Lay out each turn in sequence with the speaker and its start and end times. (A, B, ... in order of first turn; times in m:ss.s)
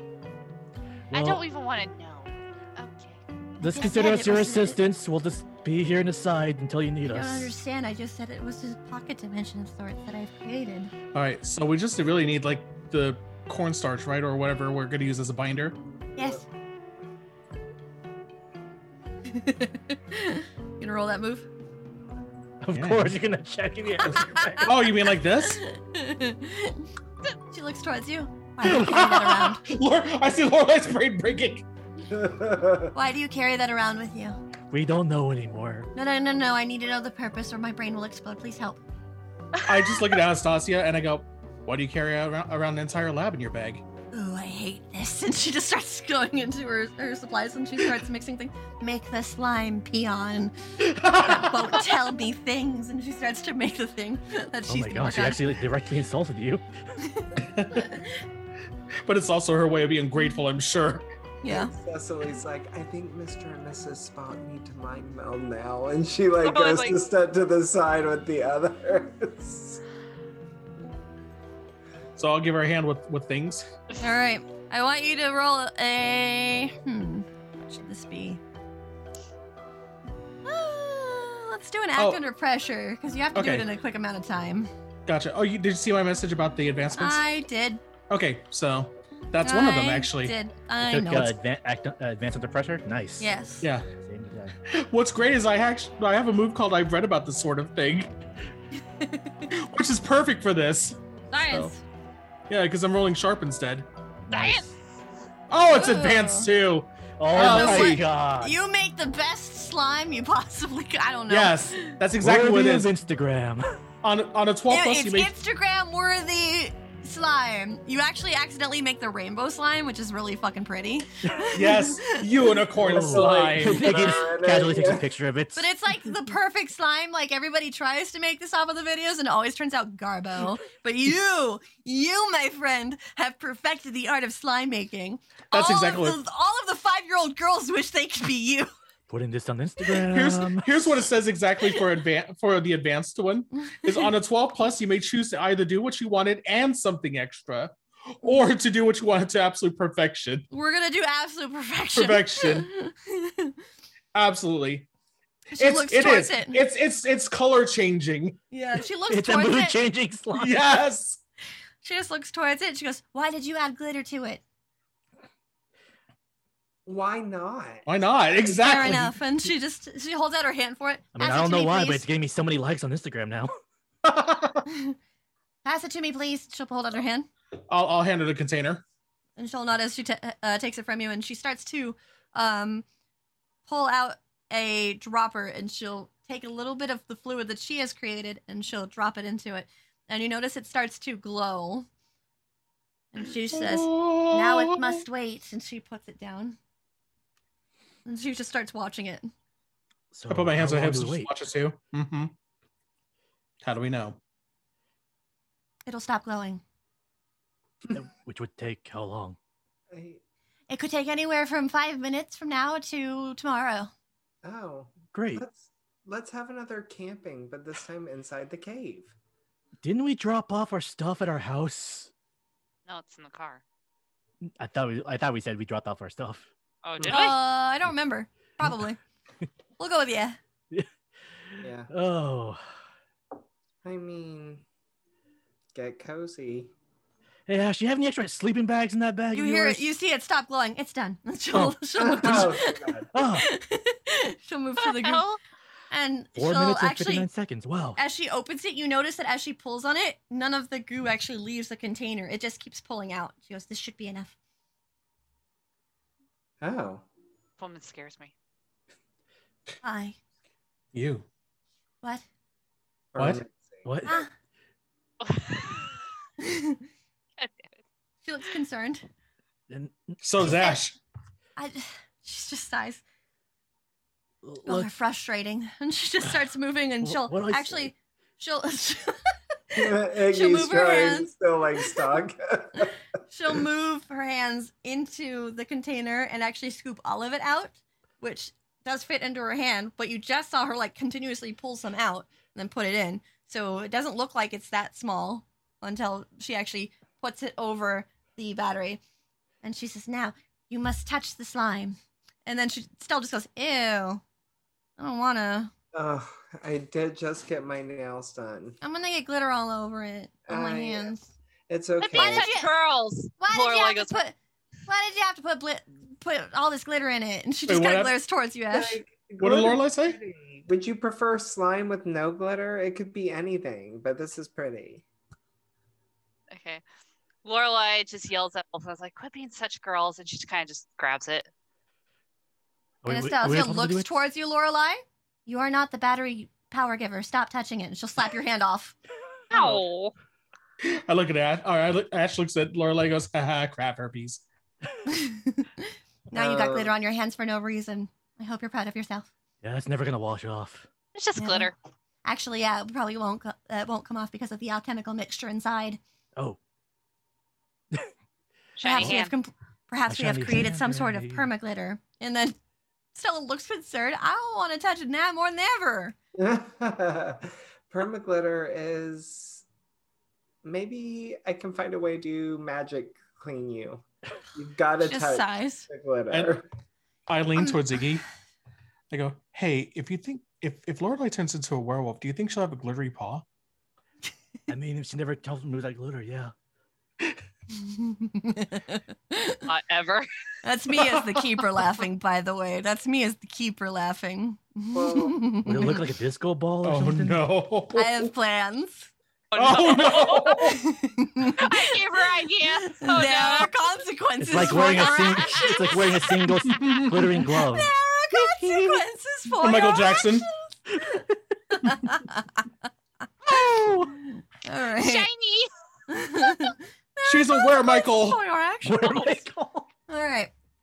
0:01.1-0:01.4 A
0:01.1-0:03.2 B
0:03.6-0:07.6 A
0:03.6-0:04.8 C
0:07.0-0:10.9 C
0:11.1-0:15.8 D
0:16.2-0:16.4 C
0:19.3-0:21.5 C
0:22.6-0:24.7 A
0:22.7-0:23.1 D
0:24.0-0:24.7 C
0:24.6-0:25.6 D
0:25.4-0:26.9 C
0:27.5-0:29.6 C
0:28.6-0:31.7 D
0:32.1-0:32.9 E
0:32.9-0:34.4 C
0:34.7-0:35.9 A
0:36.0-0:38.8 C
0:39.6-0:40.0 B
0:39.6-0:43.8 D
0:44.1-0:55.5 C
0:50.8-0:51.9 D
0:54.7-0:56.6 A
0:57.0-0:58.0 C
0:57.4-0:58.1 D
0:59.1-1:01.0 D
1:01.4-1:01.7 C
1:01.5-1:09.8 E
1:06.4-1:07.0 B
1:12.2-1:13.7 D
1:14.0-1:18.4 C
1:20.4-1:24.7 C
1:22.0-1:22.2 D
1:23.4-1:23.7 D
1:25.1-1:27.2 D
1:27.0-1:27.8 C
1:28.1-1:30.3 D
1:29.4-1:31.4 C
1:30.8-1:33.3 A
1:33.2-1:33.7 C
1:33.6-1:33.9 D
1:33.9-1:34.5 A
1:34.7-1:38.1 D
1:39.0-1:39.4 C
1:39.5-1:41.7 D
1:41.3-1:41.8 C
1:42.5-1:43.9 D
1:44.3-1:44.7 A
1:44.3-1:44.8 B
1:45.5-1:48.0 D
1:45.7-1:46.5 C
1:47.2-1:48.6 A
1:47.4-1:52.0 C
1:51.3-1:52.9 D
1:52.2-1:53.8 A
1:54.0-1:55.3 D
1:54.7-2:02.2 C
2:01.5-2:04.3 D
2:02.8-2:05.1 E
2:02.8-2:05.7 A
2:05.6-2:18.7 C
2:15.5-2:16.2 D
2:19.1-2:20.7 A
2:20.0-2:30.5 D
2:30.5-2:33.6 C
2:32.0-2:32.7 D
2:34.1-2:34.9 D
2:35.5-2:36.6 C
2:35.6-2:38.4 D
2:38.5-2:39.8 C
2:39.1-2:40.8 A
2:40.4-2:41.2 D
2:41.8-2:44.4 C
2:46.9-2:47.9 E
2:47.9-2:49.2 D
2:48.6-2:52.1 C
2:51.2-2:53.5 A
2:54.0-2:54.6 D
2:54.7-2:55.0 C
2:55.6-2:57.3 C
2:57.7-2:58.8 D
2:59.4-3:02.8 C
3:03.7-3:11.9 C
3:13.1-3:16.6 C
3:13.5-3:15.0 D
3:18.1-3:19.3 C
3:20.1-3:21.3 A
3:20.3-3:22.3 D
3:23.6-3:24.2 D
3:25.9-3:26.6 C
3:27.9-3:29.4 A
3:29.9-3:30.2 E
3:30.7-3:33.9 C
3:34.4-3:39.1 E
3:35.1-3:35.4 A
3:39.8-3:42.1 A
3:42.9-3:43.6 B
3:44.5-3:46.5 A
3:46.8-3:47.4 B
3:47.0-3:47.3 E
3:47.1-3:49.0 C
3:49.8-3:50.4 C
3:51.5-3:52.6 A
3:51.6-3:51.9 E
3:53.8-3:54.6 E
3:55.8-3:56.7 E
3:57.5-3:59.9 A
3:59.3-4:05.2 C
4:01.5-4:02.6 A
4:02.0-4:03.1 E
4:03.1-4:03.5 A
4:04.8-4:05.4 B
4:05.9-4:07.3 C
4:06.4-4:08.0 A
4:08.0-4:14.3 C
4:16.6-4:17.0 E
4:17.6-4:18.3 B
4:19.8-4:20.2 C
4:20.9-4:21.3 D
4:23.1-4:24.0 E
4:23.8-4:24.2 A
4:24.1-4:24.3 C
4:25.2-4:26.0 B
4:26.4-4:26.8 C
4:27.4-4:27.8 B
4:28.3-4:29.1 C
4:29.7-4:30.6 A
4:30.2-4:31.0 D
4:31.6-4:33.0 C
4:34.4-4:34.9 A
4:34.7-4:42.0 C
4:37.0-4:37.9 A
4:39.8-4:43.0 E
4:43.3-4:59.0 C
4:59.6-5:04.2 C
5:05.0-5:05.7 C
5:05.9-5:08.8 E
5:08.8-5:11.2 C
5:10.5-5:12.5 E
5:12.0-5:14.2 B
5:12.1-5:12.7 C
5:13.4-5:14.4 C
5:14.9-5:19.0 C
5:17.7-5:18.1 D
5:18.7-5:25.0 E
5:19.4-5:20.2 D
5:26.5-5:26.8 B
5:27.4-5:31.5 B
5:33.0-5:34.2 A
5:33.1-5:39.0 C
5:39.5-5:39.8 D
5:39.5-5:40.1 B
5:40.8-5:44.4 D
5:45.1-5:49.3 C
5:46.3-5:46.9 E
5:49.6-5:50.9 A
5:51.2-5:51.7 B
5:51.4-5:51.7 C
5:52.2-5:56.0 C
5:58.8-5:59.3 B
5:58.8-6:02.6 C
6:00.1-6:01.5 A
6:03.2-6:06.2 C
6:06.4-6:09.6 E
6:10.6-6:16.6 E
6:15.0-6:15.9 C
6:17.3-6:18.2 D
6:19.1-6:23.4 D
6:24.7-6:26.5 A
6:27.7-6:29.6 C
6:29.7-6:30.3 B
6:30.6-6:36.0 C
6:34.9-6:35.5 E
6:35.6-6:37.4 A
6:36.8-6:38.3 D
6:37.9-6:39.1 C
6:39.5-6:40.7 B
6:39.6-6:40.8 D
6:40.6-6:42.0 C
6:41.5-6:43.7 B
6:42.8-6:46.0 C
6:44.4-6:47.9 A
6:44.7-6:46.3 B
6:46.7-6:47.3 D
6:47.5-6:50.6 C
6:49.6-6:50.5 D
6:51.7-6:52.6 C
6:53.5-6:54.1 A
6:54.2-6:55.3 C
6:55.0-6:55.7 B
6:56.1-6:59.4 C
6:57.2-6:58.4 D
6:58.8-6:59.9 A
7:00.1-7:00.5 C